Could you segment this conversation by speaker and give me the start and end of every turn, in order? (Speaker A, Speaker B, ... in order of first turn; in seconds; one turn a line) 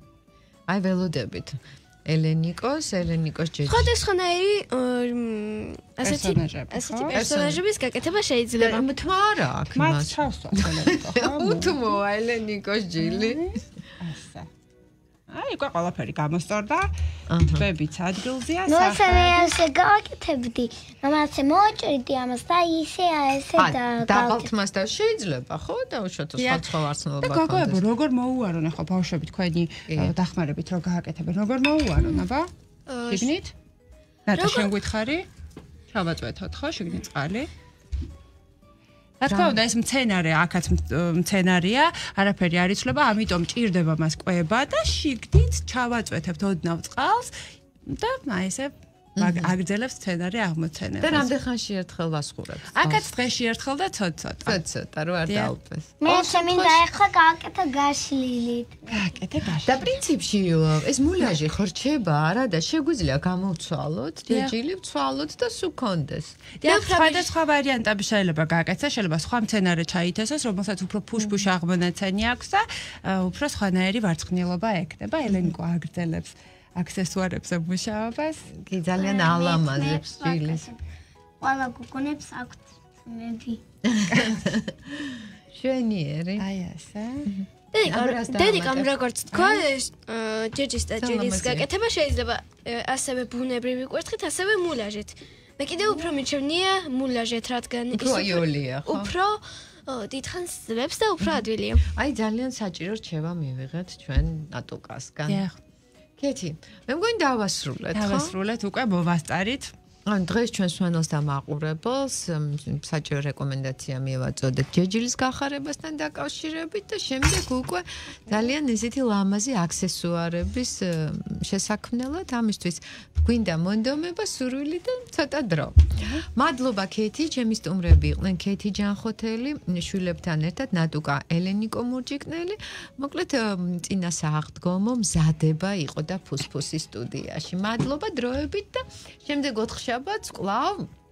Speaker A: 0.7-3.9
Speaker B: 3.7-8.8
Speaker C: 6.0-7.2
Speaker A: 7.1-7.6
Speaker A: 8.6-13.4
Speaker C: 9.7-11.8
Speaker C: 13.0-14.5
Speaker C: 15.3-16.9
Speaker A: 17.3-17.7
Speaker C: 17.5-19.5
Speaker D: 18.7-24.5
Speaker A: 23.6-27.8
Speaker C: 26.4-26.7
Speaker C: 27.2-32.5
Speaker A: 29.9-30.1
Speaker B: 32.9-33.3
Speaker C: 33.0-33.5
Speaker C: 34.3-35.3
Speaker B: 34.3-34.7
Speaker C: 35.9-37.5
Speaker C: 39.2-47.3
Speaker A: 39.3-39.6
Speaker C: 47.9-51.3
Speaker A: 49.2-49.5
Speaker A: 51.0-53.1
Speaker C: 52.7-54.6
Speaker A: 54.4-56.8
Speaker C: 55.3-55.5
Speaker D: 56.0-59.1
Speaker C: 58.9-59.9
Speaker A: 59.6-66.4
Speaker C: 64.3-64.5
Speaker C: 66.6-78.5
Speaker B: 66.6-67.3
Speaker A: 71.2-71.4
Speaker A: 75.2-75.5
Speaker A: 78.5-80.7
Speaker D: 79.0-80.8
Speaker D: 81.4-83.6
Speaker A: 83.8-86.5
Speaker C: 86.4-87.3
Speaker A: 87.2-88.9
Speaker B: 87.7-101.8
Speaker C: 89.3-89.6
Speaker A: 91.0-91.7
Speaker A: 97.9-99.1
Speaker A: 101.2-105.4
Speaker C: 105.3-105.5
Speaker A: 106.2-108.3
Speaker C: 107.9-109.7
Speaker A: 110.0-140.9